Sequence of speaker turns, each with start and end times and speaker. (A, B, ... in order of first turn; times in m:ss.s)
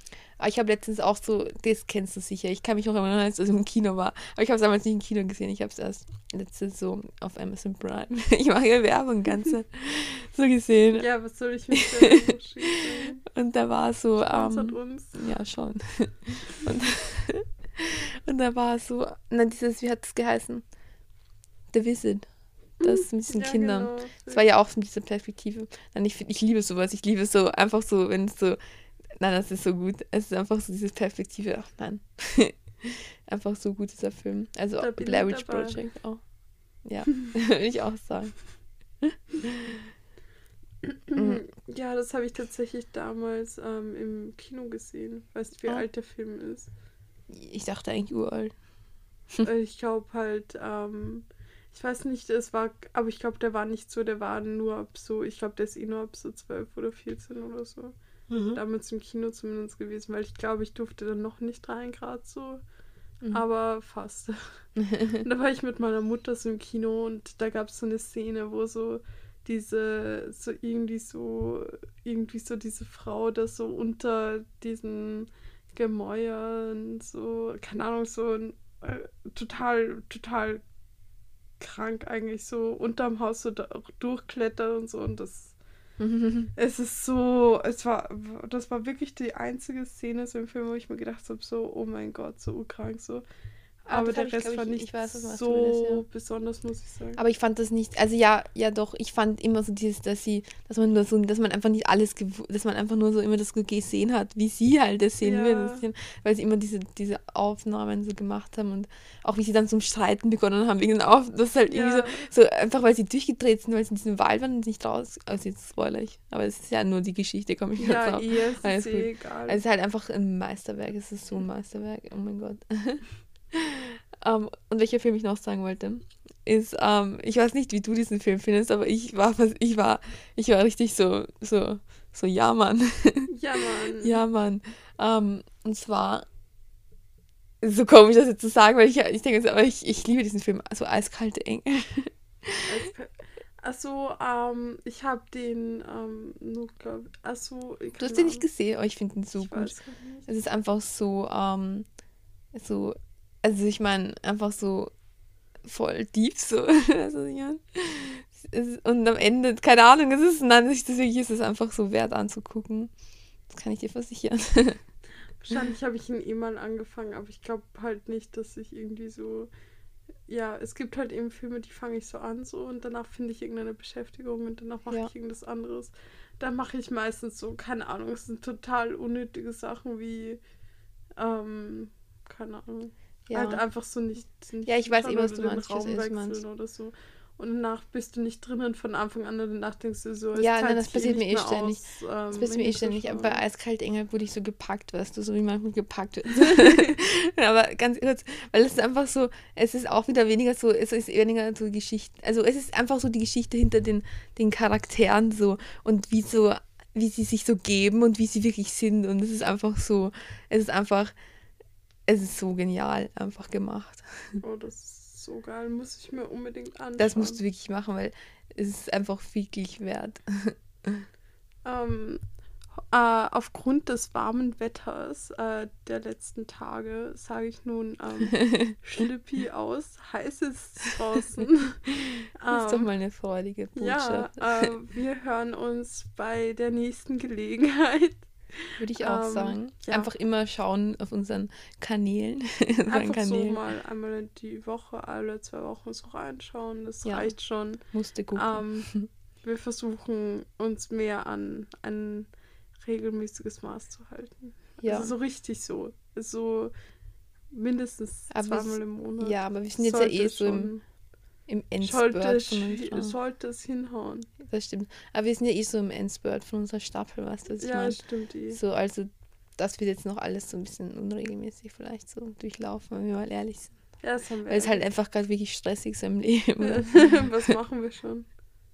0:00.4-0:11.0 A
0:11.0-0:13.2 B
0:11.7-0:12.1 A
0:12.7-0:20.6 A
0:14.2-0:15.2 B
0:21.7-0:22.2 A
0:22.8-0:28.6 A
0:22.8-0:24.4 B
0:29.2-0:36.2 A
0:34.8-0:35.8 B
0:36.8-0:38.4 A
0:39.0-0:39.8 A
0:40.8-0:46.7 B
0:41.1-0:41.4 A
0:47.3-0:48.5 A
0:49.4-0:57.9 B
0:58.3-0:58.6 A
0:58.5-1:02.6 B
1:03.3-1:04.3 B
1:04.8-1:05.2 A
1:05.2-1:20.6 B
1:21.6-1:25.6 B
1:26.0-1:26.5 A
1:26.6-1:33.2 B
1:33.9-1:36.0 A
1:33.9-1:37.2 B
1:37.2-2:13.3 A
1:45.2-1:45.8 B
1:51.7-1:52.3 B
1:57.8-1:59.6 B
2:13.3-2:14.2 B
2:14.0-2:16.2 A
2:17.6-2:22.7 A
2:22.7-2:28.4 B
2:28.0-2:29.7 A
2:29.4-2:30.3 B
2:30.3-2:31.9 A
2:32.5-2:34.9 A
2:35.6-2:42.9 A
2:43.5-2:44.8 A
2:45.4-2:49.5 B
2:50.3-3:00.4 B
3:01.2-3:13.4 B
3:03.3-3:03.6 A
3:04.6-3:06.4 A
3:10.4-3:31.1 A
3:32.1-3:34.4 A
3:34.4-3:37.4 B
3:37.0-3:41.0 A
3:41.6-3:42.2 B
3:42.9-3:52.9 B
3:48.4-3:48.7 A
3:52.5-3:54.7 A
3:53.7-4:00.1 B
3:58.8-4:03.6 A
4:02.9-4:07.8 B
4:07.0-4:09.1 A
4:08.3-4:16.7 B
4:14.8-4:15.1 A
4:17.5-4:20.8 B
4:18.3-4:20.7 A
4:21.5-4:23.1 A
4:21.8-4:24.3 B
4:24.4-4:37.5 A
4:27.6-4:28.6 B
4:34.0-4:34.8 B
4:36.6-4:38.3 B